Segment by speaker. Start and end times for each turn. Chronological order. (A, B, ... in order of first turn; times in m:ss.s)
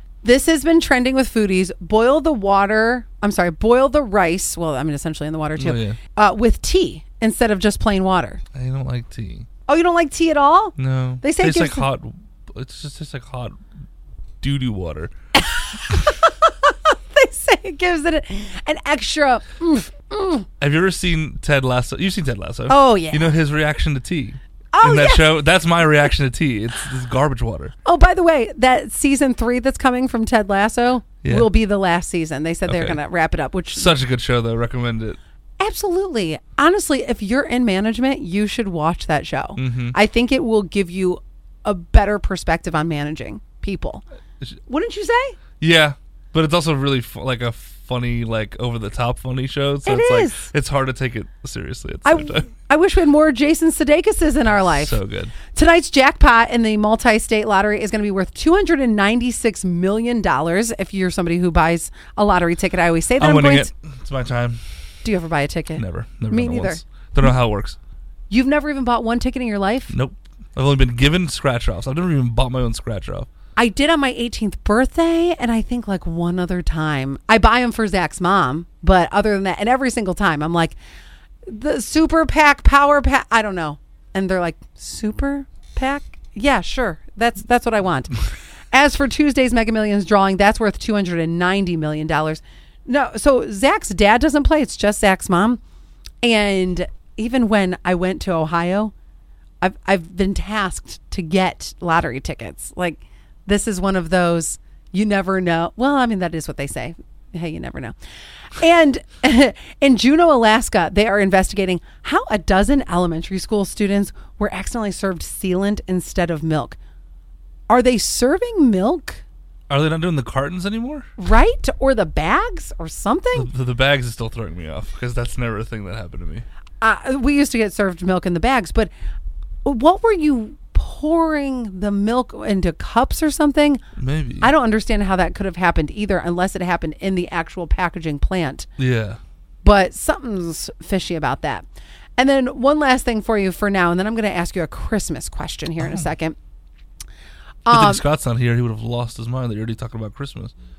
0:00.2-0:08.4 A
0:05.6-0:06.0 B
0:08.6-0:09.5 B
0:09.7-0:11.9 A
0:10.8-0:13.6 B
0:14.4-0:15.1 B
0:15.4-0:20.5 A
0:20.6-0:27.7 B
0:22.7-0:23.4 A
0:24.7-0:25.4 A
0:27.8-0:33.9 A
0:31.2-0:31.5 B
0:32.7-0:33.0 B
0:33.8-0:35.2 B
0:35.6-0:44.0 A
0:39.6-0:40.0 B
0:44.6-0:45.4 A
0:45.6-0:52.5 B
0:49.8-0:50.5 A
0:52.0-0:55.0 A
0:54.5-0:55.3 B
0:55.5-1:03.7 A
1:03.2-1:04.6 B
1:05.0-1:06.8 A
1:05.8-1:07.8 B
1:08.3-1:09.9 A
1:09.9-1:13.3 B
1:13.6-1:20.8 A
1:21.5-1:28.2 A
1:28.7-1:35.6 A
1:36.2-1:38.9 A
1:39.6-1:48.0 A
1:48.5-1:56.8 A
1:57.7-1:59.2 A
1:59.7-2:01.1 B
2:01.2-2:03.5 A
2:03.4-2:06.5 B
2:06.8-2:08.9 A
2:09.6-2:13.8 A
2:14.0-2:14.5 B
2:14.4-2:18.7 A
2:18.8-2:19.2 B
2:19.6-2:21.6 A
2:22.2-2:26.4 A
2:27.7-2:28.0 A
2:27.7-2:30.5 B